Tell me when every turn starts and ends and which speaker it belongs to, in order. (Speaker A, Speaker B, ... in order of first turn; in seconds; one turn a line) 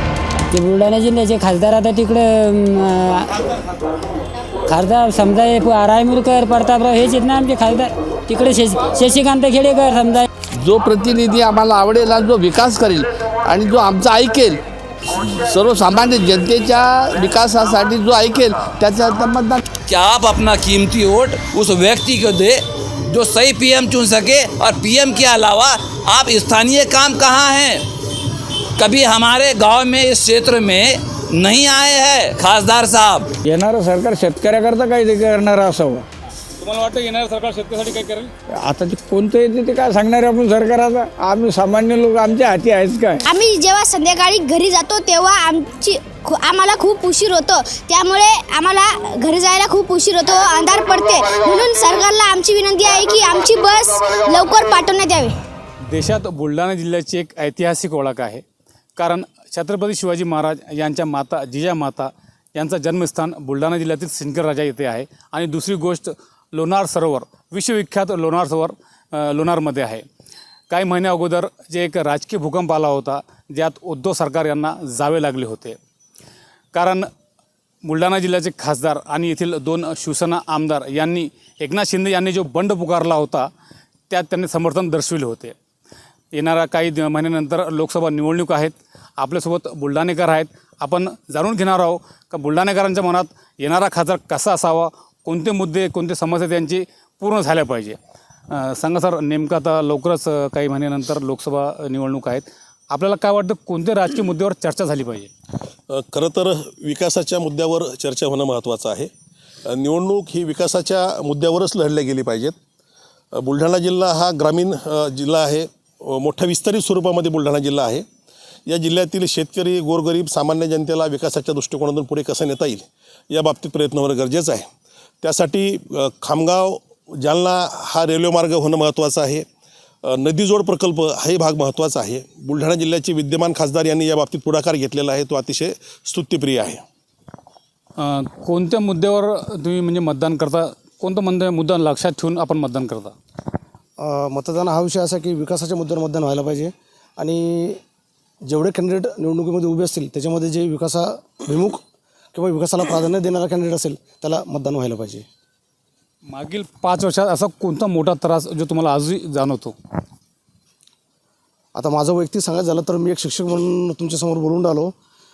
Speaker A: 0.5-3.4
Speaker A: 4.7-10.2
Speaker B: 10.6-19.6
Speaker C: 19.9-27.8
Speaker C: 28.8-33.3
Speaker D: 33.5-36.0
Speaker E: 36.6-38.3
Speaker D: 38.6-43.2
Speaker F: 43.3-55.4
Speaker E: 55.9-58.4
Speaker E: 59.0-70.0
Speaker E: 70.7-75.8
Speaker E: 76.7-77.1
Speaker E: 77.8-83.5
Speaker E: 84.1-85.5
Speaker E: 86.3-98.0
Speaker E: 98.5-105.3
Speaker G: 105.9-109.1
Speaker G: 109.7-112.5
Speaker G: 113.3-118.0
Speaker G: 118.7-124.7
Speaker G: 125.2-129.4
Speaker G: 130.1-136.8
Speaker E: 138.0-143.1
Speaker H: 144.0-147.8
Speaker H: 148.4-151.8
Speaker H: 152.3-155.2
Speaker E: 156.3-159.7
Speaker H: 161.7-164.9